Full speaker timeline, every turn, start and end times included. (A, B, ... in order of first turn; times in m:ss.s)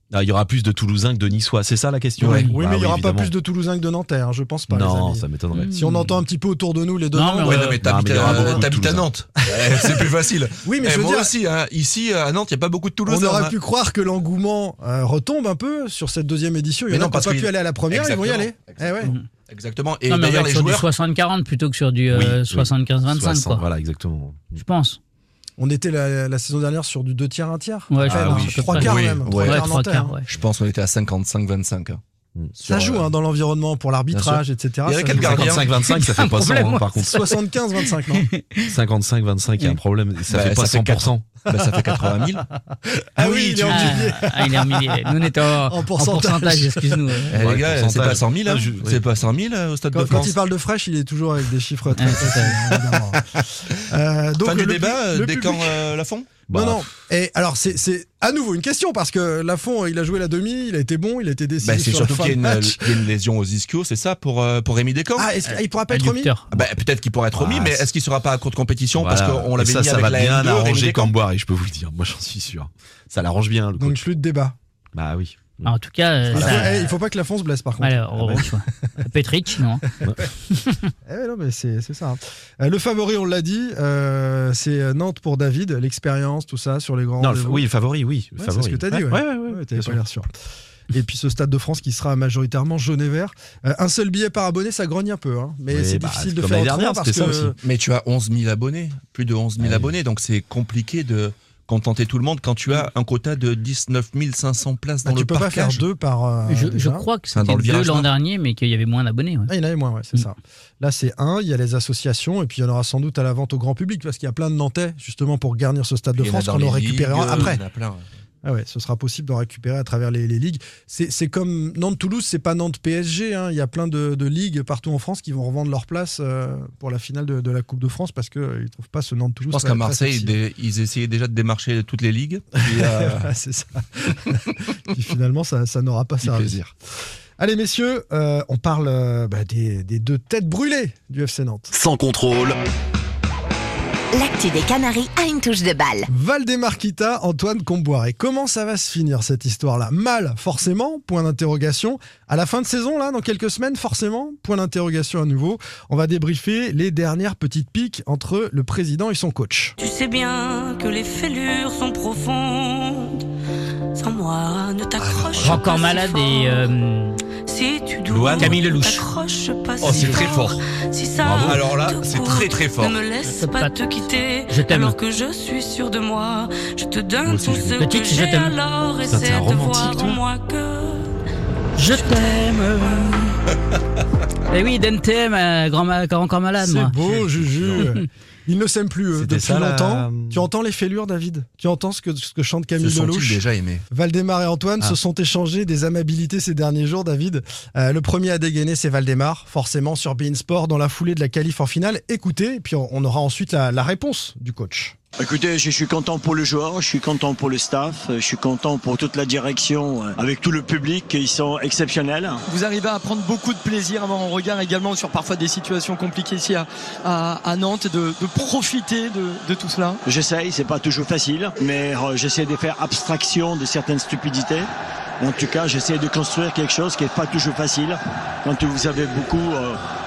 0:00.1-0:03.3 A
0:02.2-0:02.5 B
0:02.2-0:08.4 C
0:04.7-0:05.8 A
0:05.5-0:06.1 B
0:07.1-0:07.8 B
0:07.4-0:13.6 D
0:07.8-0:09.1 A
0:09.5-0:10.1 C
0:10.6-0:11.3 C
0:13.0-0:19.1 C
0:16.9-0:20.9 D
0:20.1-0:23.6 B
0:22.1-0:24.6 A
0:24.6-0:25.0 B
0:25.6-0:30.2 C
0:27.9-0:30.2 B
0:28.0-0:29.0 A
0:28.8-0:29.7 D
0:30.3-0:32.0 D
0:32.6-0:33.1 D
0:32.6-0:35.6 C
0:34.1-0:35.7 D
0:35.1-0:37.4 A
0:35.8-0:37.3 B
0:37.0-0:38.2 C
0:38.1-0:38.7 B
0:38.6-0:41.2 A
0:40.3-0:42.4 D
0:43.2-0:47.0 C
0:43.2-0:44.0 D
0:43.7-0:47.4 B
0:47.3-0:50.4 D
0:47.4-0:49.1 A
0:49.9-0:55.8 C
0:52.0-0:52.6 B
0:54.4-0:56.3 D
0:56.5-0:56.9 A
0:56.5-1:02.8 C
1:01.6-1:05.3 D
1:05.2-1:06.3 C
1:05.5-1:06.5 B
1:06.5-1:06.8 A
1:06.5-1:11.1 D
1:07.3-1:07.9 A
1:08.9-1:14.0 A
1:13.8-1:14.6 C
1:14.9-1:15.7 A
1:15.6-1:16.9 B
1:16.3-1:16.8 A
1:16.3-1:18.5 C
1:17.8-1:19.8 B
1:20.5-1:20.9 B
1:21.0-1:27.6 C
1:27.2-1:30.0 A
1:28.4-1:30.3 C
1:30.9-1:37.6 C
1:35.7-1:37.5 A
1:37.6-1:45.8 D
1:39.6-1:39.9 A
1:45.0-1:47.0 C
1:46.5-1:49.5 B
1:47.3-1:48.1 D
1:49.5-1:57.6 C
1:56.2-1:58.0 D
1:58.4-2:10.3 C
2:09.5-2:13.3 D
2:12.6-2:16.6 C
2:16.2-2:16.7 D
2:17.4-2:21.7 C
2:21.7-2:22.6 A
2:24.1-2:26.1 E
2:26.1-2:39.7 C
2:39.8-2:43.2 F
2:43.9-2:46.7 F
2:45.0-2:45.6 D
2:45.4-2:47.2 B
2:47.5-3:01.2 F
2:48.1-2:48.6 A
2:48.4-2:49.1 B
2:49.8-2:50.6 D
2:49.9-2:50.2 B
2:51.2-2:51.6 A
2:51.4-2:53.0 D
2:53.2-2:55.0 B
2:57.2-2:57.8 A
2:57.8-2:58.6 B
2:59.0-3:00.2 A
3:01.8-3:03.4 B
3:04.5-3:06.9 B
3:06.6-3:24.9 C
3:07.1-3:07.8 D
3:09.1-3:10.5 A
3:12.8-3:13.8 D
3:25.2-3:32.4 G
3:32.5-3:40.0 H
3:40.0-3:44.7 G
3:45.2-3:49.8 G